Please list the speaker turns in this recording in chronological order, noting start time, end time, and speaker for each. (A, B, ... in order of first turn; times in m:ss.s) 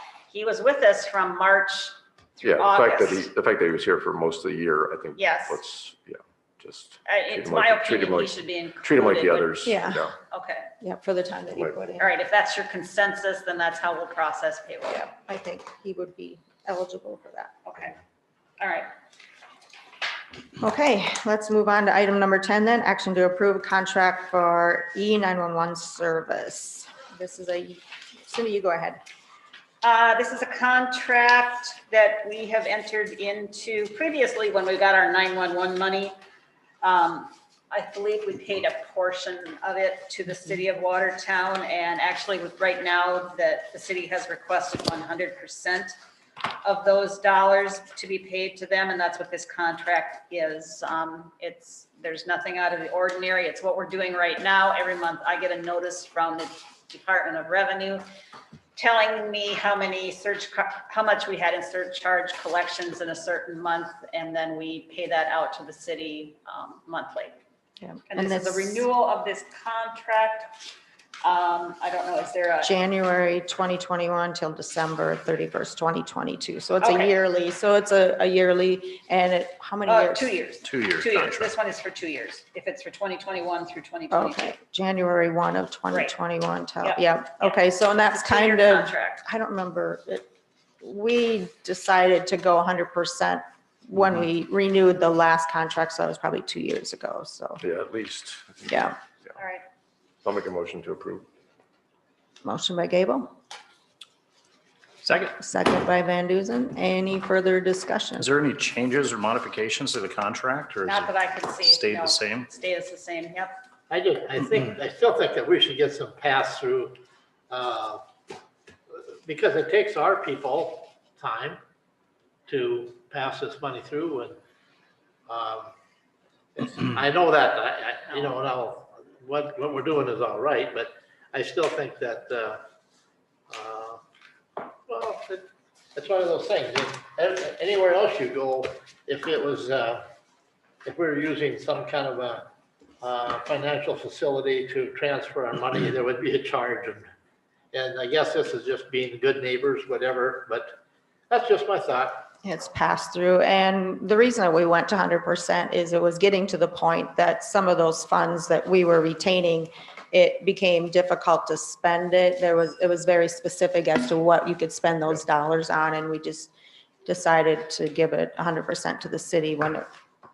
0:00.3-0:03.3 A
0:02.4-0:10.1 B
0:05.2-0:05.6 A
0:07.0-0:09.8 A
0:09.6-0:10.1 C
0:10.3-0:10.7 A
0:10.8-0:12.1 C
0:11.5-0:11.8 B
0:12.0-0:15.0 A
0:14.9-0:17.6 C
0:17.6-0:18.0 A
0:18.6-0:18.9 A
0:20.6-0:29.0 C
0:29.8-0:36.2 A
0:36.8-0:46.0 A
0:46.6-0:58.0 A
0:58.8-1:07.4 A
1:07.8-1:08.8 C
1:08.1-1:10.5 A
1:11.2-1:12.7 A
1:12.6-1:20.3 C
1:16.8-1:17.1 A
1:19.8-1:24.5 A
1:20.6-1:21.5 D
1:24.1-1:30.3 C
1:26.8-1:27.6 A
1:28.1-1:29.2 A
1:30.8-1:37.6 C
1:37.6-1:39.3 B
1:38.7-1:38.9 C
1:39.4-1:39.6 A
1:40.2-1:41.3 B
1:42.4-1:43.3 C
1:45.0-1:45.3 D
1:45.2-1:48.3 C
1:48.2-1:52.5 D
1:50.8-1:53.6 A
1:53.9-1:58.0 E
1:59.2-2:01.6 E
2:02.5-2:04.4 E
2:05.3-2:05.7 E
2:06.6-2:12.6 E
2:08.1-2:08.4 A
2:13.5-2:14.0 E
2:14.9-2:20.1 E
2:20.8-2:22.5 E
2:23.0-2:27.1 E
2:27.7-2:30.8 E
2:31.3-2:32.3 E
2:32.4-2:46.5 C
2:47.0-2:49.9 C